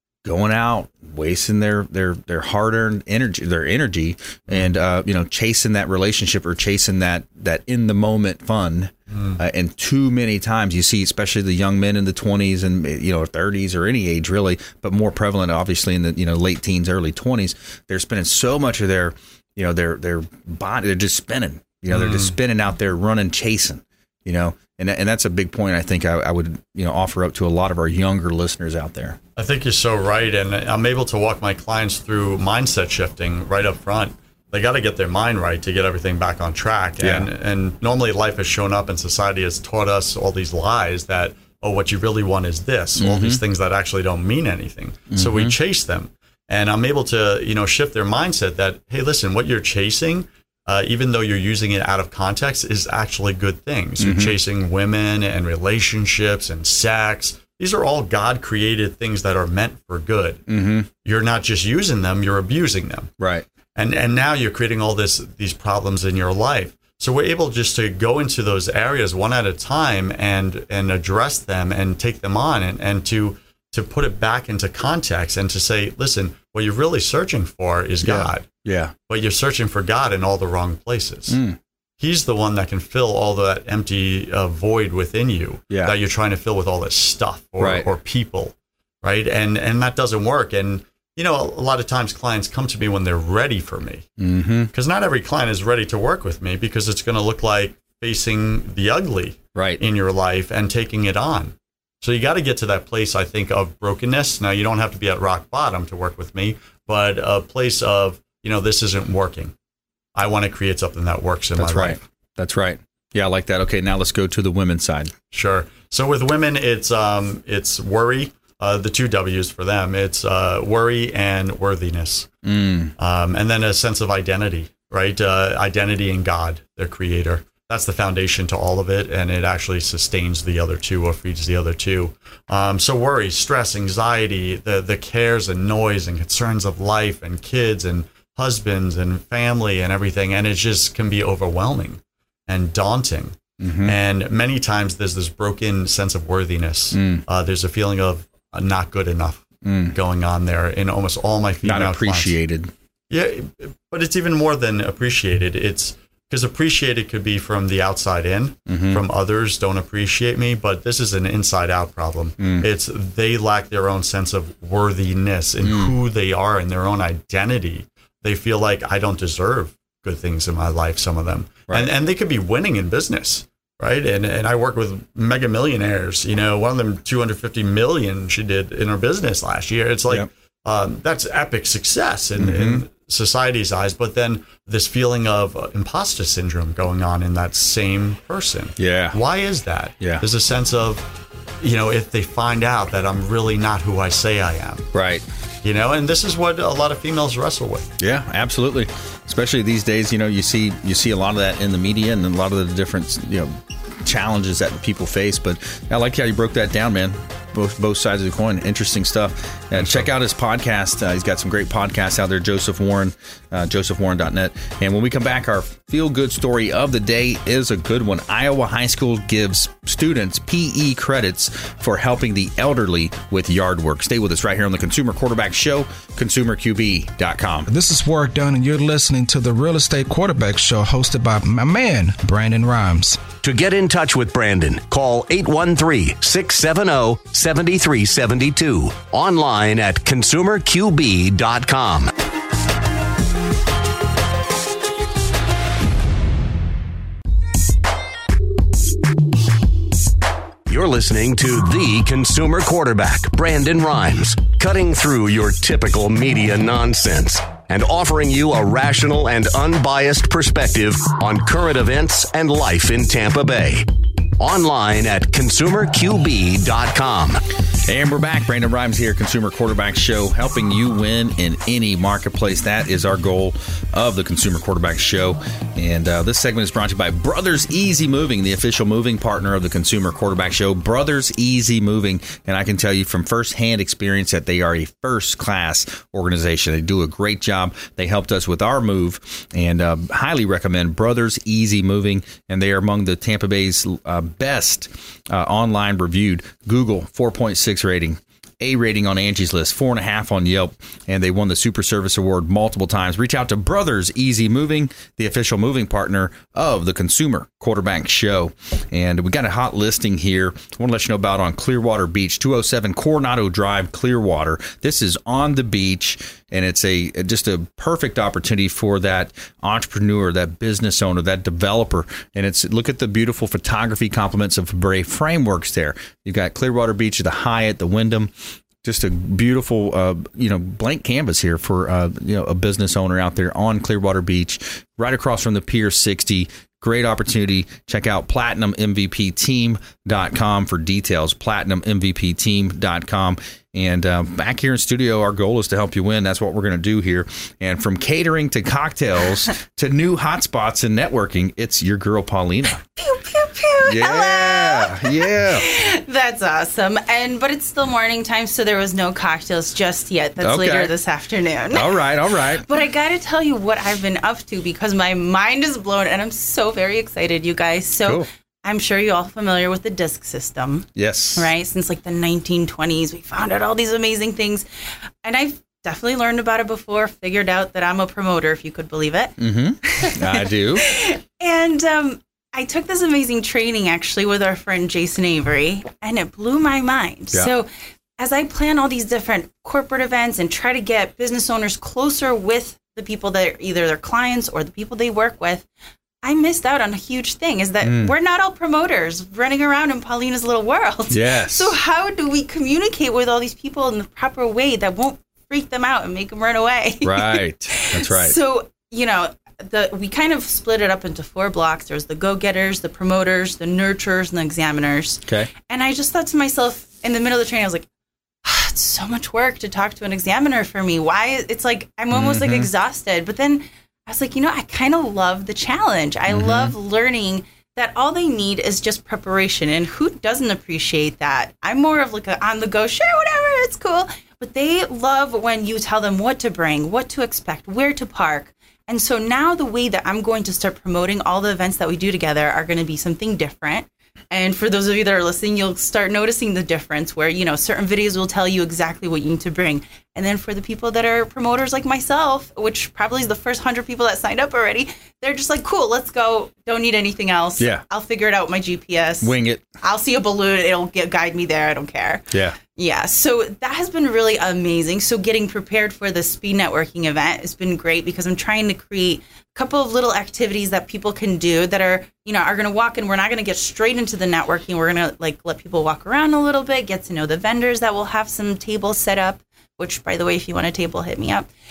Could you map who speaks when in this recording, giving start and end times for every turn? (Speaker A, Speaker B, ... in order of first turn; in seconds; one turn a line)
Speaker A: 0.2-29.2
Speaker B: 9.1-9.4
Speaker B: 21.9-22.3
Speaker B: 29.4-60.4
Speaker A: 37.0-37.3
Speaker A: 43.0-43.4
Speaker A: 45.1-45.5
Speaker A: 54.0-54.4
Speaker A: 60.5-60.9
Speaker B: 61.0-63.1
Speaker A: 63.2-63.5
Speaker B: 63.8-78.5
Speaker A: 78.0-78.9
Speaker B: 79.1-81.4
Speaker A: 81.3-81.6
Speaker B: 82.0-94.1
Speaker A: 87.6-87.9
Speaker A: 94.2-94.7
Speaker B: 94.7-109.5
Speaker A: 99.5-99.8
Speaker B: 110.1-112.0
Speaker A: 111.6-115.1
Speaker B: 115.3-122.3
Speaker A: 122.4-122.9
Speaker B: 123.0-152.3
Speaker A: 143.6-143.9
Speaker A: 146.9-147.2
Speaker A: 149.6-149.9
Speaker A: 151.6-152.7
Speaker B: 153.1-191.1
Speaker A: 158.7-159.0
Speaker A: 162.4-162.7
Speaker A: 165.6-165.9
Speaker A: 182.4-182.8
Speaker A: 188.8-189.2
Speaker B: 191.6-194.9
Speaker A: 194.9-195.2
Speaker B: 195.6-197.9
Speaker A: 198.0-227.7
Speaker C: 227.7-233.3
Speaker D: 233.4-242.1
Speaker D: 250.7-263.9
Speaker D: 264.4-267.4
Speaker A: 267.9-328.3
Speaker A: 328.8-352.8
Speaker E: 353.0-374.6
Speaker A: 353.9-355.7
Speaker A: 360.4-360.9
Speaker A: 361.7-362.6
Speaker A: 370.9-371.5
Speaker E: 375.2-379.4
Speaker A: 379.4-380.9
Speaker E: 379.9-395.6
Speaker E: 396.2-417.9
Speaker A: 397.8-398.1
Speaker A: 401.1-401.7
Speaker A: 407.0-408.4
Speaker A: 415.2-415.5
Speaker E: 418.4-481.5
Speaker A: 422.1-422.7
Speaker A: 426.3-426.7
Speaker A: 459.2-459.7
Speaker A: 462.3-462.6